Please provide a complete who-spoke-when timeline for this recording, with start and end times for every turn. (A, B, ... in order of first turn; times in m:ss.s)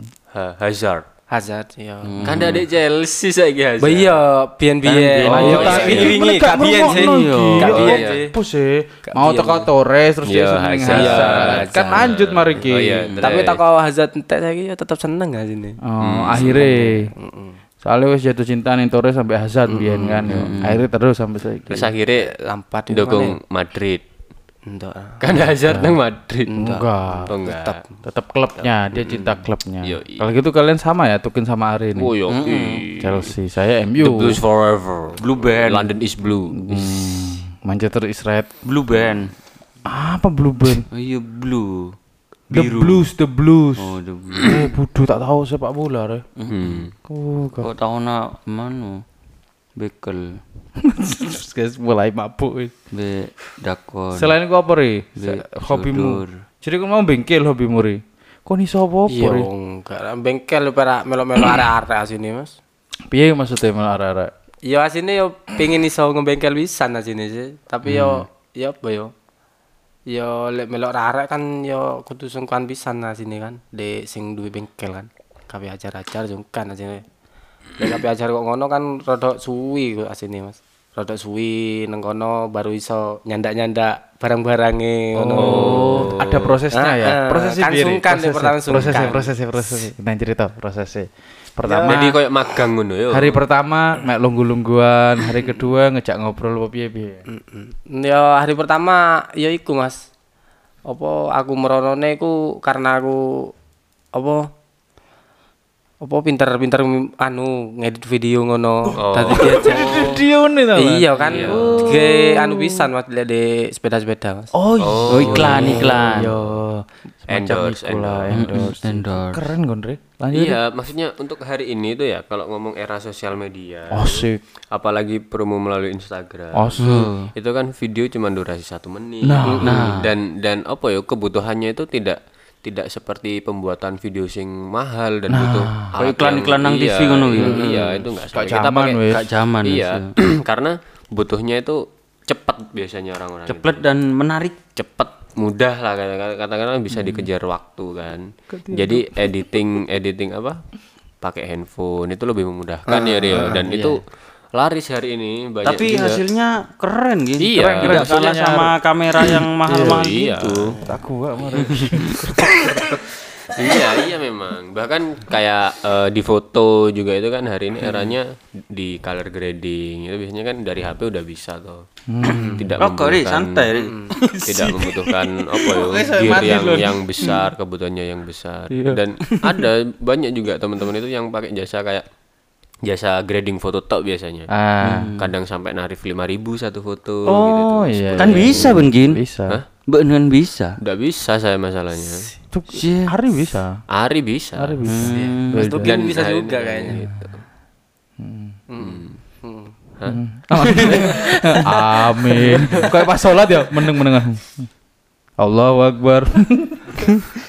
0:00.3-0:01.0 A
0:01.3-0:02.2 B
0:02.0-0:02.6 C
0:02.2-0:04.2 A
0:03.8-0:08.3 B
0:04.8-0:06.4 C
0:05.2-0:13.1 D
0:05.4-0:06.1 A
0:06.9-0:07.7 C
0:07.6-0:08.2 A
0:09.0-0:09.7 B
0:10.2-0:13.6 A
0:10.8-0:12.1 B
0:13.1-0:13.4 C
0:13.2-0:15.8 B
0:15.8-0:17.1 D
0:16.0-0:16.7 A
0:16.4-0:17.6 B
0:17.8-0:21.9 D
0:19.7-0:20.3 B
0:20.3-0:20.8 C
0:21.7-0:22.3 A
0:22.2-0:23.4 B
0:22.9-0:24.0 A
0:24.6-0:25.5 B
0:25.2-0:26.5 A
0:25.7-0:26.0 D
0:26.5-0:27.9 B
0:26.6-0:27.3 D
0:27.3-0:27.8 A
0:28.0-0:32.1 D
0:28.9-0:30.2 A
0:32.0-0:33.3 A
0:32.3-0:32.8 C
0:33.0-0:34.4 D
0:34.0-0:36.9 A
0:35.2-0:35.9 C
0:36.5-0:38.5 D
0:38.6-0:39.3 C
0:39.9-0:40.8 D
0:40.9-0:41.9 C
0:42.5-0:43.0 C
0:42.5-0:46.2 D
0:43.8-0:44.6 C
0:46.4-0:46.8 C
0:46.5-0:46.9 A
0:47.1-0:47.7 D
0:47.6-0:49.0 C
0:49.8-0:50.4 C
0:50.8-0:52.7 D
0:52.9-0:54.3 C
0:54.1-0:59.5 D
0:55.2-0:56.3 C
0:59.1-1:02.6 B
1:03.1-1:04.3 D
1:04.6-1:09.1 B
1:07.8-1:08.2 C
1:10.1-1:17.0 B
1:17.8-1:26.2 B
1:25.2-1:32.2 D
1:25.4-1:26.5 A
1:26.7-1:29.8 B
1:31.6-1:32.2 B
1:31.8-1:33.4 A
1:33.1-1:37.2 D
1:37.3-1:40.1 B
1:40.8-1:43.5 B
1:44.1-1:44.5 B
1:46.0-1:50.2 B
1:48.9-1:52.8 D
1:49.0-1:50.1 A
1:50.8-1:54.5 B
1:51.3-1:51.7 A
1:54.5-2:00.6 D
1:54.8-1:56.3 A
1:55.1-1:56.3 C
1:57.3-1:58.6 A
1:58.3-1:59.5 C
2:00.3-2:19.0 A
2:03.9-2:04.4 D
2:06.5-2:06.9 D
2:06.8-2:07.3 C
2:09.2-2:09.8 D
2:09.4-2:09.7 B
2:09.6-2:10.1 C
2:15.3-2:15.9 D
2:16.0-2:18.0 C
2:18.3-2:19.2 D
2:19.1-2:20.1 C
2:19.6-2:23.8 A
2:23.5-2:24.8 C
2:24.8-2:30.7 A
2:26.9-2:27.3 C
2:28.5-2:29.2 D
2:31.2-2:36.2 A
2:32.9-2:34.0 D
2:35.6-2:40.8 C
2:37.4-2:38.3 A
2:37.7-2:38.7 D
2:39.7-2:40.0 D
2:39.7-2:40.8 A
2:40.8-2:43.0 D
2:41.6-2:42.0 C
2:43.5-2:53.7 A
2:52.1-2:52.7 D
2:52.3-2:55.0 C
2:53.7-2:54.1 B
2:54.4-3:02.0 A
2:55.7-2:57.3 D
2:58.7-2:59.4 D
3:02.8-3:04.5 A
3:04.5-3:05.1 D
3:04.8-3:05.3 C
3:05.2-3:08.8 A
3:07.3-3:09.6 D
3:08.2-3:09.2 C
3:09.9-3:10.8 C
3:10.8-3:12.3 A
3:12.5-3:13.8 D
3:12.7-3:13.1 C
3:13.9-3:14.8 A
3:14.6-3:15.9 D
3:14.8-3:15.6 C
3:15.1-3:17.0 B
3:15.8-3:17.4 A
3:18.2-3:18.6 D
3:18.7-3:19.7 B
3:18.8-3:19.2 A
3:20.1-3:24.7 D
3:20.8-3:22.9 B
3:25.4-3:27.2 D